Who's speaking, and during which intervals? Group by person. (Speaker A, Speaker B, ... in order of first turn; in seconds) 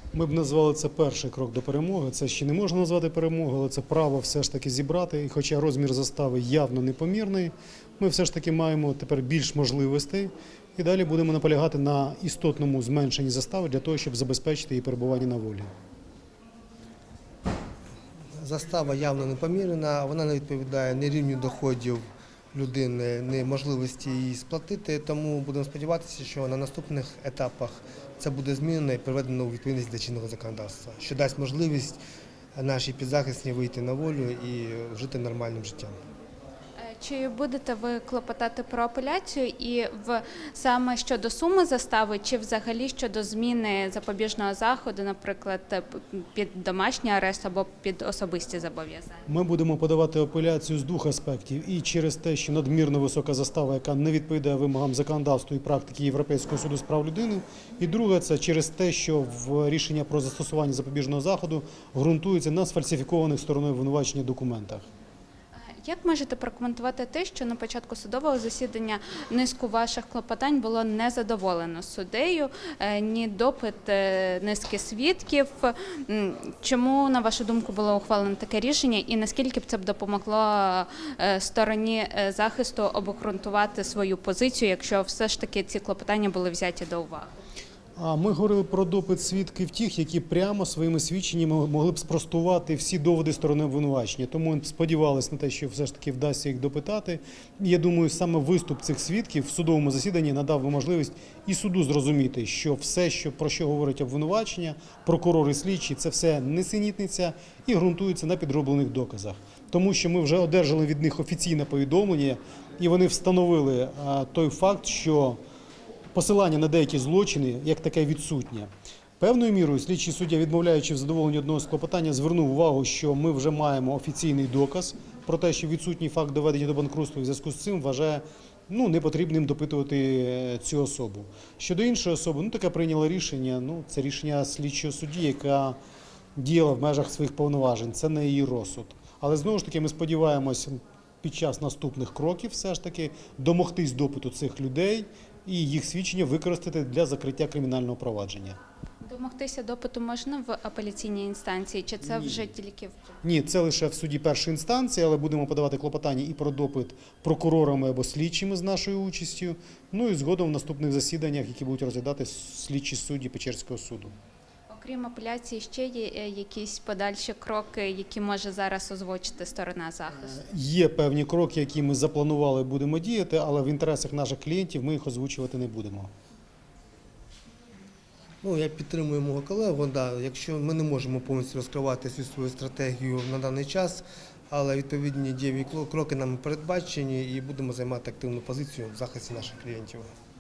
Speaker A: 0.1-15.7, 49.3-64.8, 88.0-115.4, 116.1-118.7, 119.2-135.8, 136.4-148.6, 152.1-152.4, 153.2-164.1, 170.2-176.1
Speaker B: 18.4-22.0, 22.5-32.0, 32.5-35.9, 178.4-190.1
Speaker C: 36.8-49.2, 65.5-87.3, 149.0-153.1, 164.7-170.4